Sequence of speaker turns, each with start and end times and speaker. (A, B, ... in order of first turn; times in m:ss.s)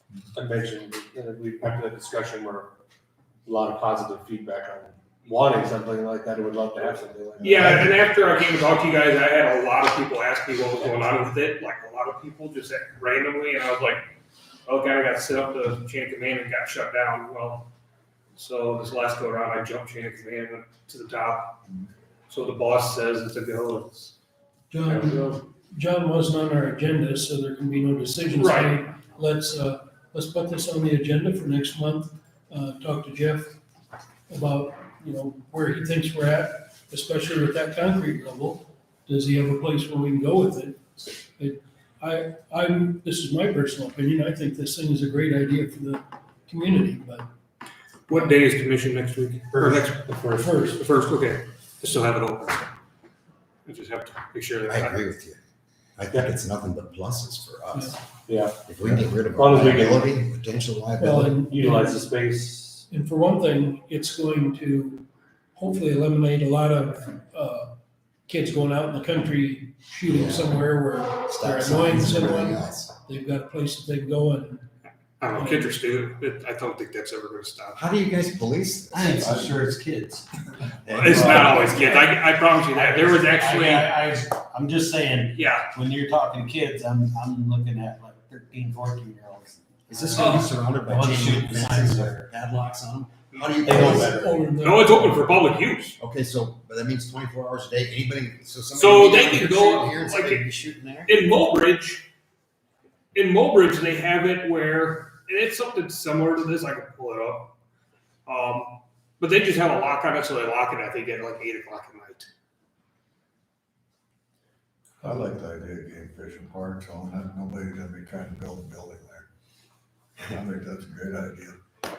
0:00.4-0:02.7 A
0:03.5-0:07.8 A
0:07.4-0:08.0 B
0:07.4-0:14.1 C
0:14.7-0:17.7 C
0:18.4-0:21.6 C
0:22.3-0:24.1 C
0:24.7-0:33.6 D
0:24.9-0:25.2 C
0:28.4-0:28.8 C
0:34.3-0:47.3 D
0:48.1-0:52.7 C
0:48.1-0:48.4 D
0:49.5-0:50.6 E
0:50.1-0:50.4 A
0:50.4-0:50.8 D
0:53.7-0:55.0 C
0:54.7-0:55.4 F
0:56.0-0:58.0 F
0:58.3-0:58.6 E
0:58.6-1:01.4 F
0:58.8-0:59.1 B
0:59.4-1:00.0 E
0:59.4-1:00.0 A
1:01.0-1:02.1 D
1:01.5-1:02.9 E
1:02.9-1:07.7 D
1:08.3-1:14.6 D
1:10.1-1:10.6 F
1:11.3-1:12.9 F
1:15.2-1:17.8 C
1:15.3-1:15.7 D
1:17.8-1:19.3 F
1:18.9-1:20.3 E
1:19.2-1:19.6 B
1:20.8-1:32.3 E
1:20.9-1:23.9 C
1:25.3-1:25.7 C
1:29.9-1:34.3 F
1:30.2-1:30.5 C
1:33.3-1:33.8 C
1:33.6-1:34.5 E
1:33.8-1:35.2 D
1:34.6-1:36.0 C
1:36.0-1:41.2 F
1:38.7-1:40.4 C
1:41.1-1:42.1 C
1:43.1-1:47.5 C
1:48.3-1:52.3 C
1:55.0-1:59.3 B
2:00.3-2:01.6 B